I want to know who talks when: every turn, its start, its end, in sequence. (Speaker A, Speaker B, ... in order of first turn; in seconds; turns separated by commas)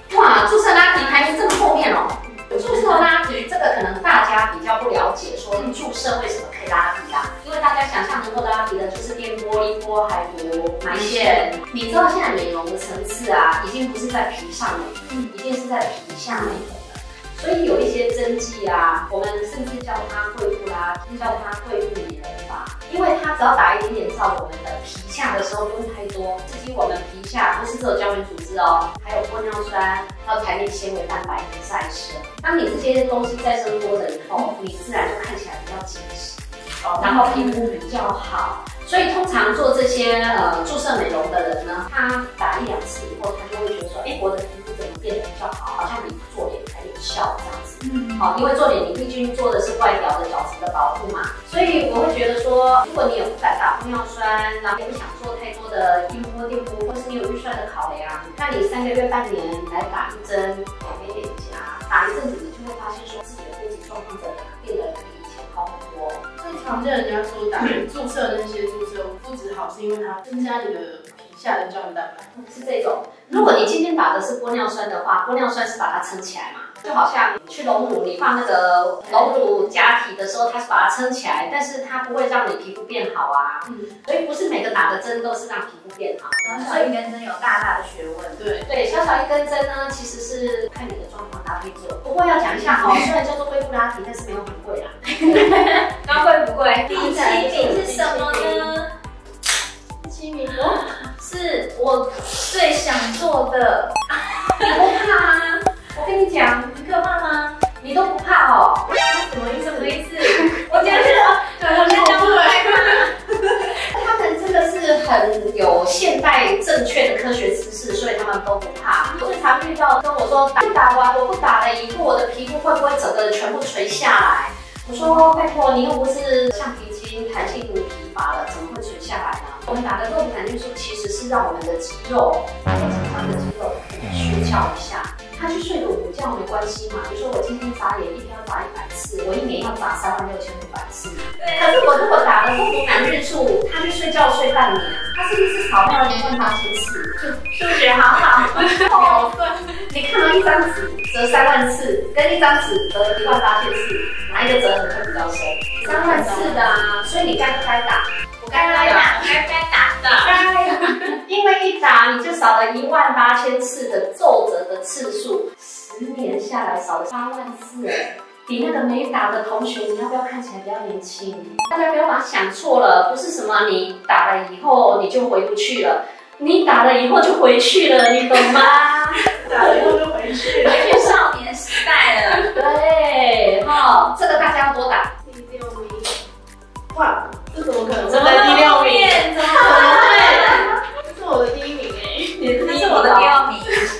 Speaker A: 0.1-66.3, Speaker B: 2.5-3.0, Speaker B: 5.5-5.8, Speaker C: 10.9-11.2, Speaker B: 11.1-11.4, Speaker B: 36.8-37.7, Speaker C: 47.8-48.2, Speaker B: 66.4-72.3, Speaker A: 72.3-86.9, Speaker B: 79.0-79.5, Speaker C: 86.4-88.5, Speaker B: 88.4-88.7, Speaker A: 88.7-95.5, Speaker B: 95.2-95.7, Speaker C: 95.4-98.9, Speaker B: 96.8-98.7, Speaker B: 100.0-100.8, Speaker C: 101.2-104.8, Speaker A: 104.6-106.8, Speaker C: 106.7-107.5, Speaker A: 107.8-109.0, Speaker B: 109.1-113.1, Speaker C: 109.4-113.2, Speaker A: 113.8-149.3, Speaker C: 141.3-142.1, Speaker C: 147.7-149.6, Speaker A: 149.8-159.3, Speaker B: 155.8-156.9, Speaker C: 158.5-160.4, Speaker A: 160.2-179.9, Speaker B: 179.3-180.9, Speaker C: 180.6-182.5, Speaker A: 182.5-185.1, Speaker B: 185.2-186.1, Speaker B: 186.9-192.4, Speaker C: 188.0-190.7, Speaker A: 192.3-193.5, Speaker C: 192.6-193.9